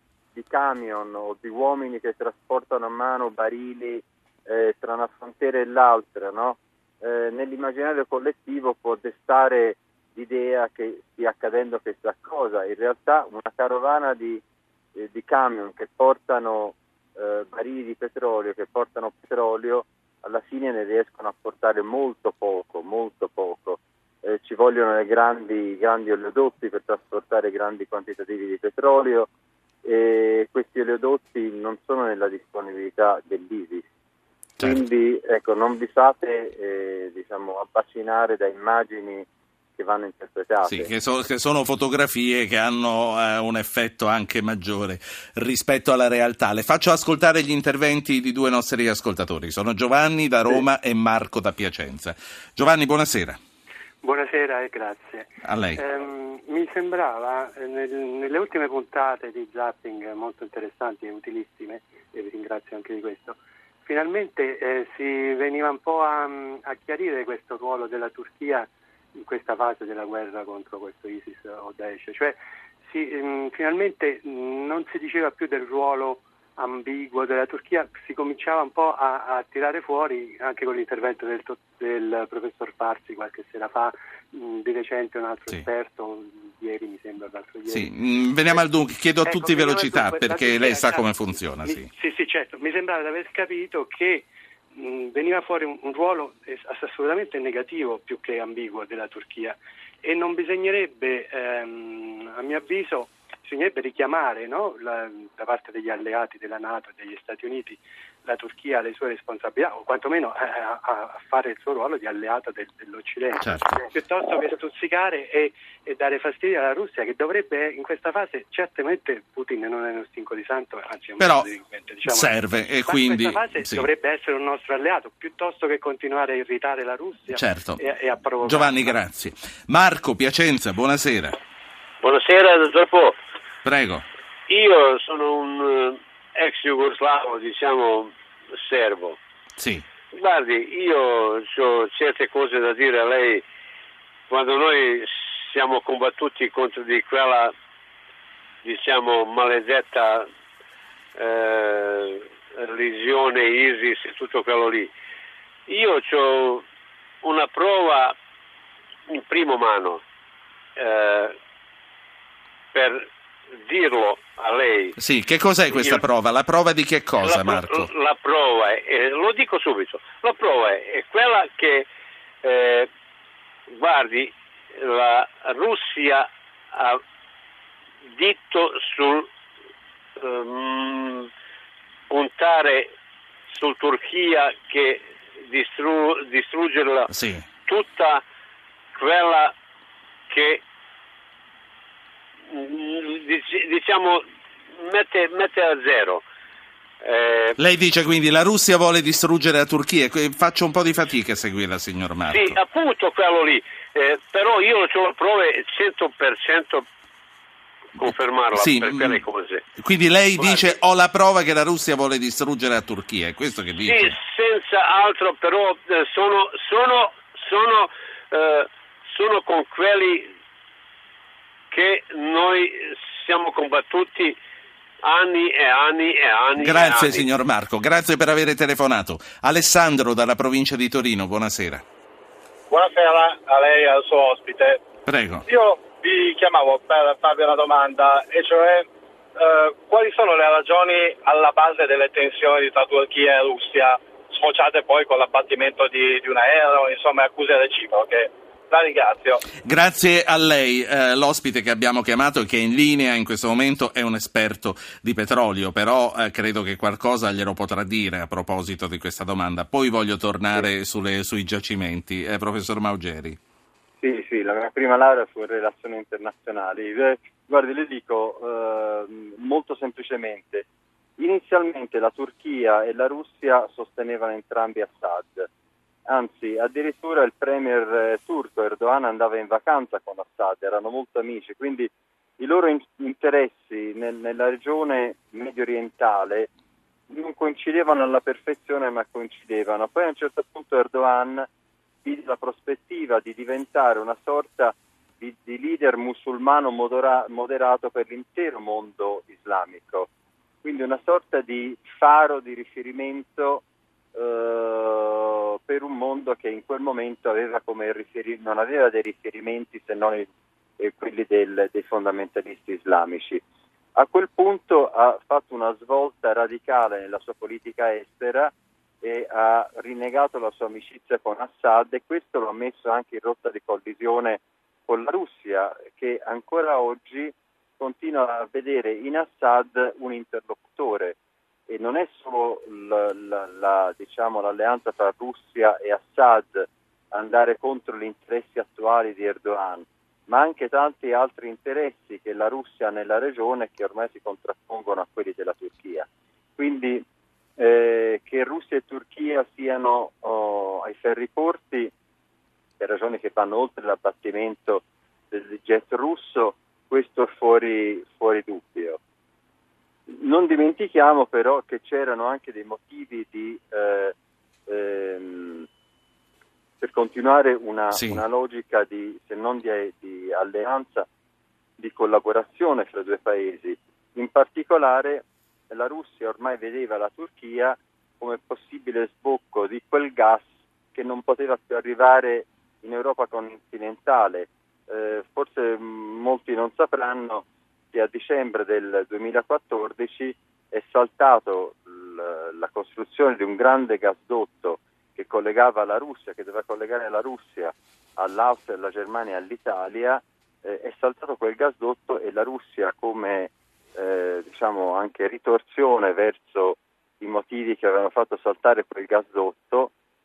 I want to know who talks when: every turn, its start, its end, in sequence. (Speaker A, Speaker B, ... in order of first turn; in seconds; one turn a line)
Speaker A: 0.3-14.4
Speaker A: 14.9-29.3
Speaker A: 29.8-33.8
Speaker A: 34.6-39.2
Speaker A: 39.8-40.9
Speaker B: 40.6-53.4
Speaker C: 54.0-87.9
Speaker B: 55.4-55.8
Speaker B: 87.7-91.9
Speaker C: 89.2-128.9
Speaker B: 113.4-113.8
Speaker B: 121.2-121.5
Speaker B: 122.0-123.9
Speaker B: 127.3-127.8
Speaker B: 128.4-131.4
Speaker D: 132.0-133.2
Speaker B: 133.7-134.0
Speaker D: 134.5-139.2
Speaker B: 139.6-139.8
Speaker D: 140.1-143.4
Speaker D: 144.3-147.5
Speaker D: 148.6-150.3
Speaker D: 151.2-154.9
Speaker D: 155.7-156.6
Speaker D: 157.2-158.2
Speaker D: 159.1-160.0
Speaker D: 160.8-161.3
Speaker D: 162.7-163.0
Speaker D: 163.6-165.0
Speaker B: 165.0-167.9
Speaker D: 165.7-166.0
Speaker D: 167.2-171.9
Speaker D: 172.4-172.9
Speaker D: 173.7-177.0
Speaker D: 178.1-179.3
Speaker D: 180.2-181.3
Speaker D: 182.1-182.9
Speaker D: 183.5-187.1
Speaker B: 187.1-187.4
Speaker D: 187.7-188.2
Speaker D: 189.0-189.5
Speaker D: 190.3-190.6
Speaker D: 192.5-194.2
Speaker D: 194.8-196.2
Speaker D: 197.0-197.6
Speaker B: 197.6-202.6
Speaker D: 202.3-206.8
Speaker B: 208.0-209.3
Speaker D: 208.0-209.7
Speaker B: 209.8-214.2
Speaker D: 210.4-210.7
Speaker D: 213.8-220.3
Speaker D: 221.7-224.3
Speaker D: 225.0-227.2
Speaker B: 226.6-231.8
Speaker E: 232.7-234.8
Speaker B: 235.1-235.4
Speaker E: 235.5-249.4
Speaker B: 249.6-263.4
Speaker A: 264.0-270.6
Speaker A: 271.2-275.5
Speaker A: 276.1-286.5
Speaker A: 287.1-291.5
Speaker A: 292.0-300.1
Speaker A: 300.6-303.6
Speaker A: 304.1-310.3
Speaker A: 310.8-313.4
Speaker A: 313.9-331.1
Speaker A: 331.7-347.0
Speaker A: 347.6-351.9
Speaker A: 352.8-359.0
Speaker A: 360.1-364.1
Speaker A: 364.7-365.7
Speaker A: 366.8-371.1
Speaker B: 367.9-368.2
Speaker A: 371.8-409.9